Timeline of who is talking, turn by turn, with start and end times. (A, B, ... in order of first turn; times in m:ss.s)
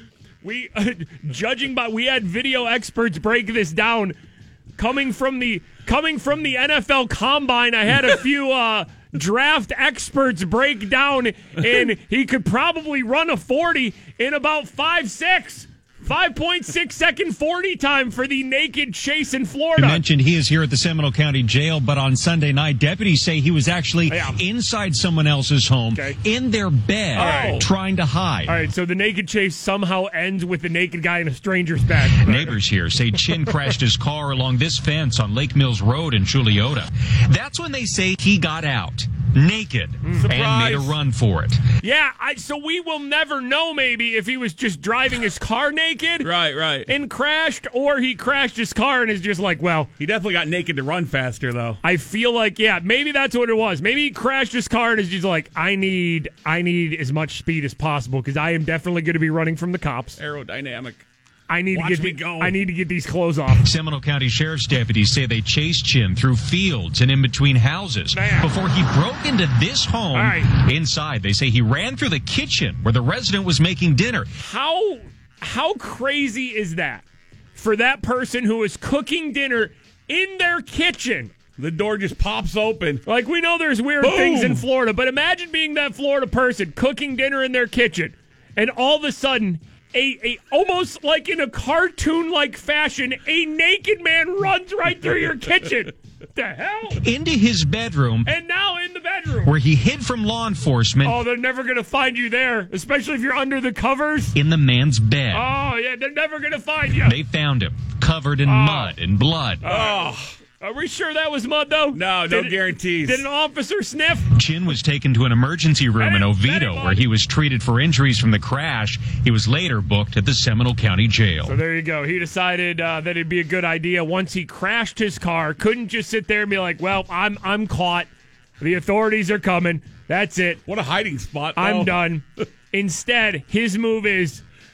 0:00.4-0:04.2 A
0:04.8-0:20.0 A
0:19.8-0:28.6 B
0:24.1-0:24.4 A
0:25.9-0:26.2 A
0:27.1-0:27.6 A
0:27.1-0:27.7 C
0:28.4-0:32.5 A
0:32.1-0:41.6 B
0:40.2-0:41.0 C
0:41.8-0:46.3 A
0:46.2-0:46.9 C
0:46.9-0:49.9 A
0:50.0-0:51.8 C
0:51.8-1:00.2 A
1:00.2-1:01.0 C
1:01.5-1:03.7 A
1:01.7-1:02.6 C
1:03.6-1:14.3 B
1:08.1-1:08.5 A
1:10.1-1:10.5 A
1:14.4-1:21.3 A
1:21.6-1:23.0 C
1:23.0-1:37.0 A
1:24.0-1:24.6 C
1:37.0-1:38.3 B
1:38.2-1:39.5 A
1:39.4-1:41.2 B
1:41.0-1:44.4 A
1:44.3-1:45.5 B
1:45.3-1:47.2 A
1:47.0-1:49.6 B
1:48.4-1:49.0 A
1:49.6-1:54.3 A
1:49.6-1:50.4 C
1:51.9-1:53.2 C
1:54.4-2:01.6 B
1:56.0-1:57.0 A
2:01.4-2:08.1 A
2:08.6-2:10.6 A
2:10.6-2:12.1 C
2:11.6-2:14.4 A